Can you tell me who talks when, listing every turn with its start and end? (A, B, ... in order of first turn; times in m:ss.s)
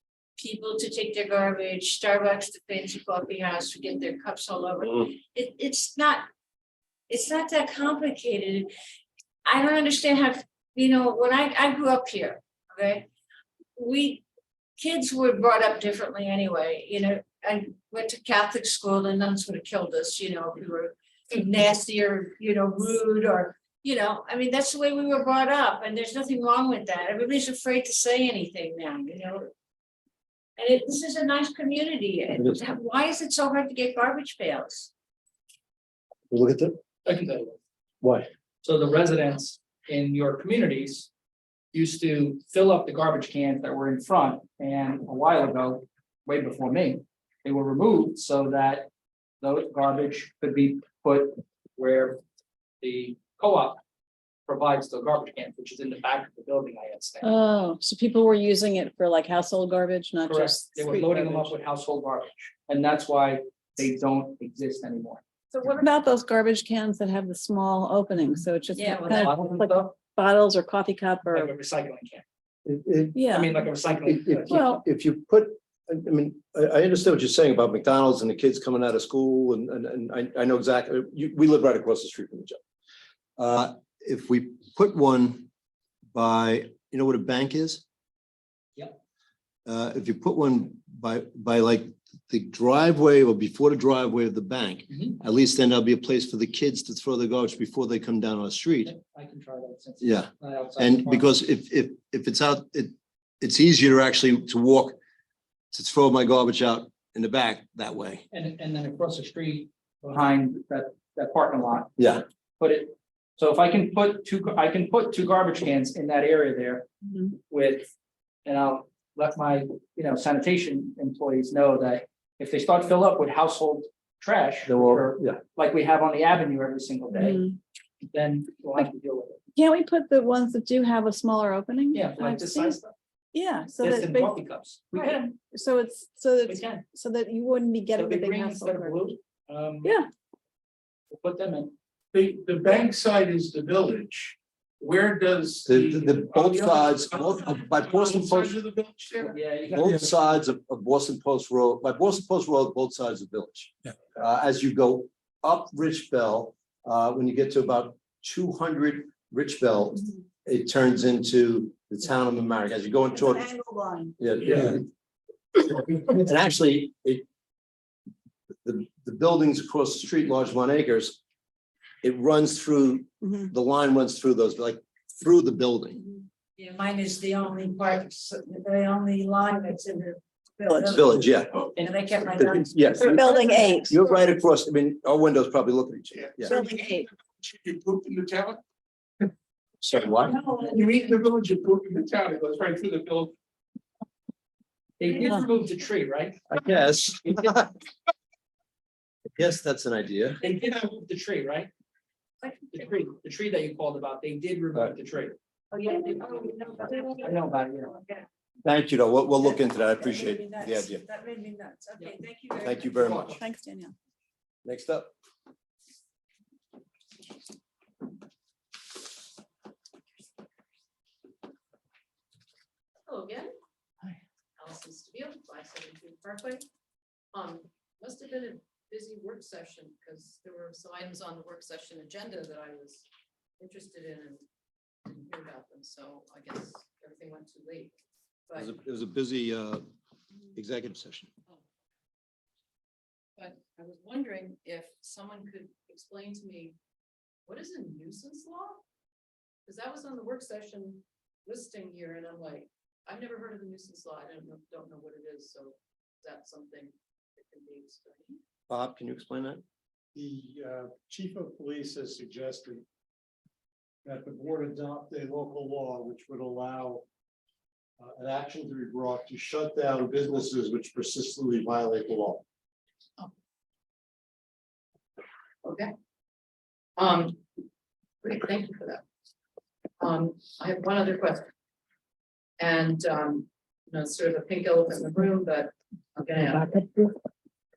0:00.4-0:06.3 A
0:07.1-0:08.7 A
0:09.4-0:13.1 A
0:13.8-0:14.2 A
0:14.8-0:29.5 A
0:30.6-0:34.9 A
0:36.3-0:36.8 B
0:37.0-0:37.6 C
0:38.0-0:38.3 B
0:38.6-0:41.1 C
0:41.7-0:48.9 C
0:49.4-0:52.2 C
0:52.8-0:53.8 C
0:54.5-0:57.3 C
0:57.2-1:01.5 D
1:00.2-1:05.2 C
1:05.6-1:11.5 D
1:08.9-1:10.0 C
1:11.3-1:12.2 C
1:12.6-1:13.2 B
1:13.2-1:13.6 D
1:13.3-1:14.6 C
1:14.1-1:22.6 B
1:14.5-1:14.8 D
1:23.4-1:25.5 B
1:26.1-1:27.8 B
1:29.7-1:38.9 B
1:38.8-1:41.4 C
1:40.0-1:45.0 B
1:45.7-1:48.2 B
1:48.3-1:51.9 C
1:52.0-1:52.2 B
1:52.6-1:56.9 C
1:57.1-1:57.3 D
1:57.5-1:57.9 C
1:58.4-2:07.5 C
2:04.7-2:05.4 B
2:07.1-2:07.6 D
2:08.1-2:09.4 C
2:09.6-2:12.8 D
2:11.9-2:12.9 C
2:13.3-2:14.4 D
2:13.8-2:15.4 C
2:15.4-2:19.1 D
2:16.4-2:16.8 C
2:18.0-2:20.0 C
2:21.1-2:21.7 C
2:22.1-2:26.7 E
2:25.7-2:28.6 B
2:28.2-2:29.2 E
2:29.3-2:30.2 C
2:29.7-2:43.5 B
2:43.1-2:44.2 A
2:44.2-2:44.8 B
2:45.7-2:47.2 B
2:48.6-2:51.2 B
2:52.0-2:56.1 B
2:56.6-3:01.2 A
3:00.9-3:01.6 B
3:01.8-3:03.8 A
3:02.4-3:06.6 B
3:03.1-3:04.0 D
3:06.5-3:07.1 D
3:09.8-3:10.4 B
3:10.3-3:11.1 A
3:10.7-3:11.7 E
3:12.8-3:13.3 E
3:15.0-3:16.4 C
3:16.5-3:17.8 B
3:19.4-3:20.4 B
3:20.4-3:21.7 C
3:22.4-3:22.7 A
3:22.7-3:25.4 C
3:25.7-3:27.4 A
3:27.1-3:28.0 C
3:28.0-3:28.2 A
3:28.6-3:31.1 B
3:31.2-3:31.6 A
3:32.2-3:32.7 A
3:32.6-3:33.4 B
3:32.8-3:33.4 C
3:33.4-3:33.9 D
3:34.6-3:35.1 B
3:43.1-3:43.5 F
3:44.6-3:46.7 F
3:47.3-3:53.1 F
3:53.6-3:54.4 F
3:55.0-3:58.0 F
3:58.5-3:58.7 F
3:58.6-3:59.8 B
4:00.6-4:01.3 B
4:03.4-4:06.8 F
4:07.5-4:08.8 F
4:09.7-4:18.4 F
4:18.7-4:19.6 B
4:20.2-4:22.8 G
4:24.0-4:27.0 G
4:28.0-4:32.4 G
4:35.6-4:35.9 F
4:37.0-4:37.4 F
4:38.2-4:39.0 F
4:40.0-4:41.5 F
4:42.6-4:46.8 F